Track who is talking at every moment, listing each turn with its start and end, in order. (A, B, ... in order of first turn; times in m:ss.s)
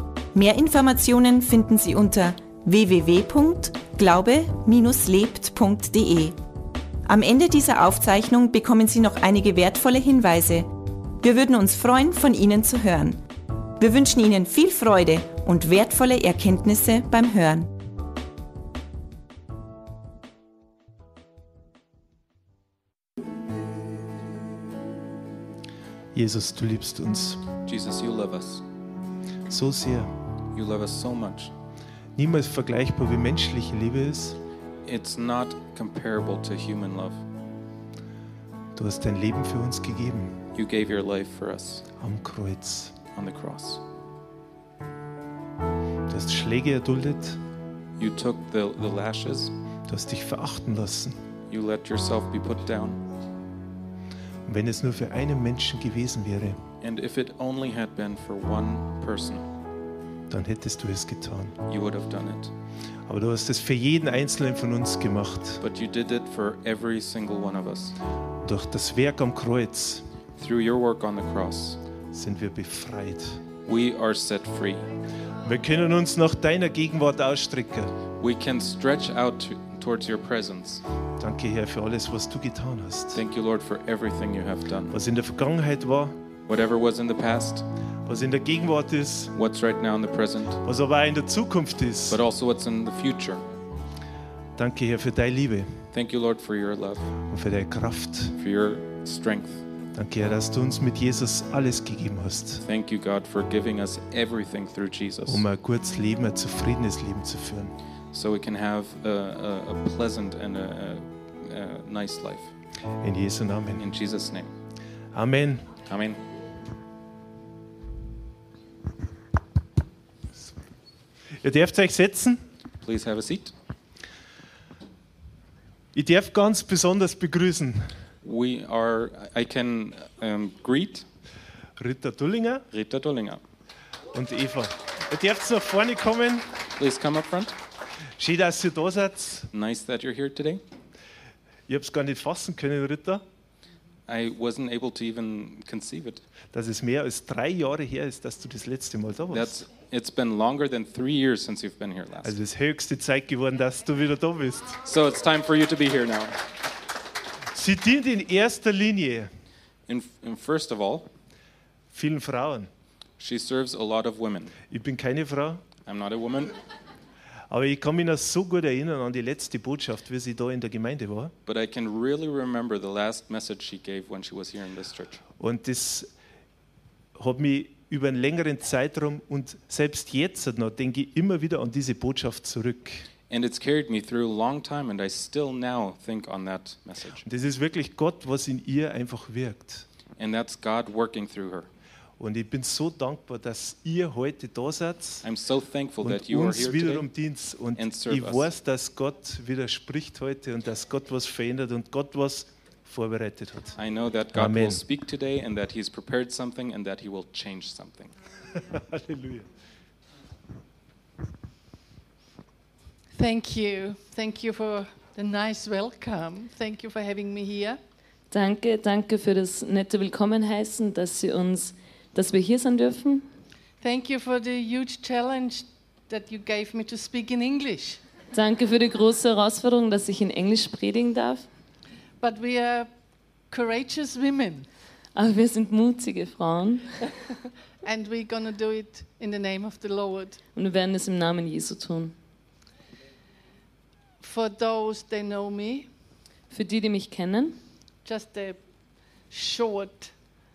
0:00.3-0:06.4 A
0:07.0-0:13.2 A
0:13.8-0:17.7 A
0:26.1-0:27.4 B
0:27.6-0:28.6 C
0:29.5-0:30.1 B
0:30.5-0:31.5 C
0:32.2-0:34.4 B
0:34.8-0:37.2 C
0:38.7-0:40.4 B
0:40.5-0:41.9 C
0:42.0-0:43.0 B
0:43.1-0:43.8 C
0:46.1-0:47.4 B
0:48.0-0:49.5 C
0:49.9-0:51.2 B
0:51.5-0:53.0 C
0:54.4-0:56.6 B
0:56.8-0:59.4 C
1:00.3-1:01.6 B
1:01.7-1:02.5 C
1:03.1-1:05.6 B
1:05.6-1:08.0 C
1:08.4-1:10.0 B
1:10.4-1:11.8 C
1:12.1-1:13.4 B
1:13.6-1:14.8 C
1:15.4-1:17.9 B
1:18.2-1:20.8 C
1:21.2-1:23.2 B
1:23.1-1:24.9 C
1:24.9-1:26.2 B
1:26.5-1:27.6 C
1:28.0-1:29.3 B
1:29.3-1:30.6 C
1:30.6-1:32.2 B
1:32.1-1:33.4 C
1:34.6-1:35.8 B
1:35.9-1:37.1 C
1:37.2-1:38.4 B
1:38.4-1:39.6 C
1:39.9-1:42.6 B
1:42.6-1:45.4 C
1:45.2-1:47.7 B
1:48.1-1:52.5 C
1:53.0-1:53.8 B
1:53.8-1:54.5 C
1:55.1-1:55.8 B
1:55.8-1:56.2 C
2:01.3-2:02.4 B
2:02.8-2:03.5 C
2:05.9-2:08.0 B
2:08.2-2:11.0 C
2:11.8-2:12.6 B
2:12.7-2:13.4 C
2:14.1-2:16.5 B
2:16.8-2:17.5 C
2:18.2-2:19.5 B
2:19.5-2:20.6 C
2:21.7-2:23.2 B
2:24.1-2:26.2 C
2:26.5-2:29.6 B
2:29.3-2:32.4 C
2:32.2-2:34.8 B
2:34.8-2:36.4 C
2:37.5-2:39.3 B
2:39.9-2:41.1 C
2:41.9-2:42.7 B
2:43.2-2:44.6 C
2:44.7-2:45.6 B
2:45.8-2:46.5 C
2:47.5-2:51.3 B
2:51.4-2:55.2 C
2:55.4-2:56.1 B
2:57.2-3:03.1 B
3:03.3-3:07.2 C
3:07.2-3:09.9 B
3:10.2-3:11.7 C
3:12.2-3:15.2 B
3:15.2-3:17.1 C
3:16.0-3:23.8 B
3:17.8-3:18.5 C
3:23.8-3:28.1 C
3:24.3-3:24.8 B
3:28.5-3:29.5 B
3:33.1-3:37.8 D
3:38.3-3:43.3 E
3:43.8-3:48.0 D
3:48.3-3:51.4 E
3:52.2-3:52.9 D
3:53.5-3:54.7 D
3:55.1-3:57.0 E
3:57.8-4:00.4 D
4:00.5-4:02.2 E
4:04.2-4:05.9 D
4:06.5-4:07.6 E
4:08.0-4:08.6 D
4:09.3-4:10.1 D